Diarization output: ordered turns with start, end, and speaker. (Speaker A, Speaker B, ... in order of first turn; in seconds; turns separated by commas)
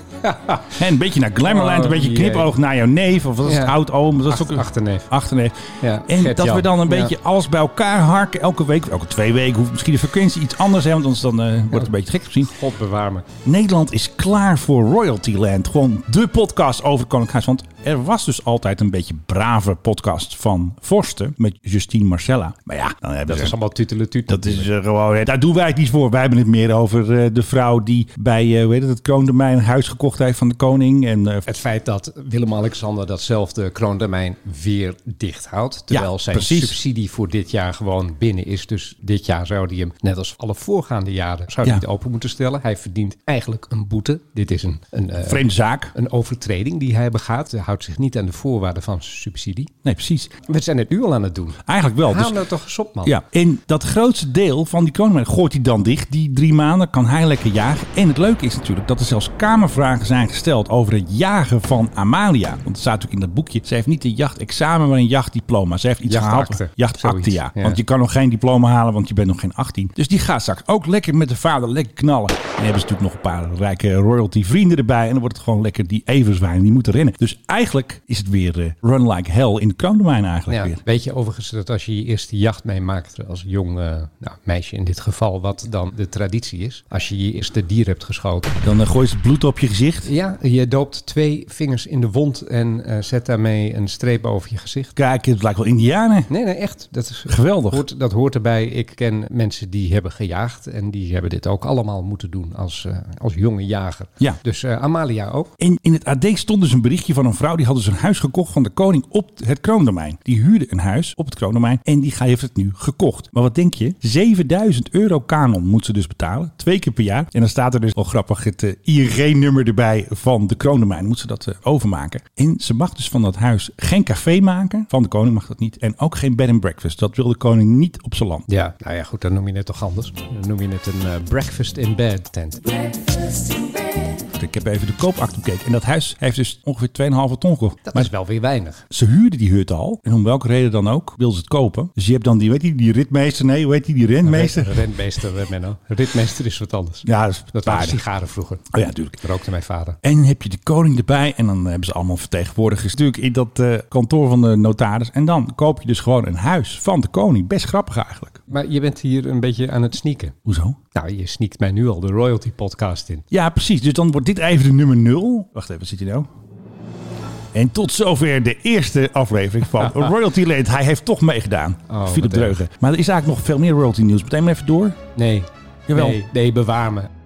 Speaker A: 0.2-0.8, Speaker B: 0.7-12.5, Speaker A: 1.4-2.5, Speaker A: 3.4-5.1, Speaker A: 5.8-7.1, Speaker A: 11.7-13.3, Speaker B: 13.4-23.6, Speaker A: 23.3-24.7, Speaker B: 24.3-31.4, Speaker A: 31.4-49.7, Speaker B: 35.9-36.8, Speaker B: 45.2-45.9, Speaker B: 49.8-50.3, Speaker A: 50.5-53.1, Speaker B: 51.6-52.4, Speaker B: 53.0-80.8, Speaker A: 66.1-67.8, Speaker A: 80.5-88.6, Speaker B: 88.6-90.1, Speaker A: 90.0-94.9, Speaker B: 95.0-96.3, Speaker A: 96.3-105.5, Speaker B: 97.3-97.8, Speaker B: 105.6-128.4, Speaker A: 128.5-132.7, Speaker B: 134.3-138.1, Speaker A: 137.9-138.8, Speaker B: 138.9-144.8, Speaker A: 144.2-148.6, Speaker B: 147.1-148.0, Speaker B: 148.7-149.2, Speaker A: 149.2-150.0, Speaker B: 150.0-158.4, Speaker A: 158.5-160.3, Speaker B: 160.4-160.8, Speaker A: 160.9-163.2, Speaker B: 163.3-166.3, Speaker B: 167.5-175.0, Speaker A: 169.8-170.1, Speaker A: 171.9-172.6, Speaker A: 175.2-177.1, Speaker B: 175.9-176.2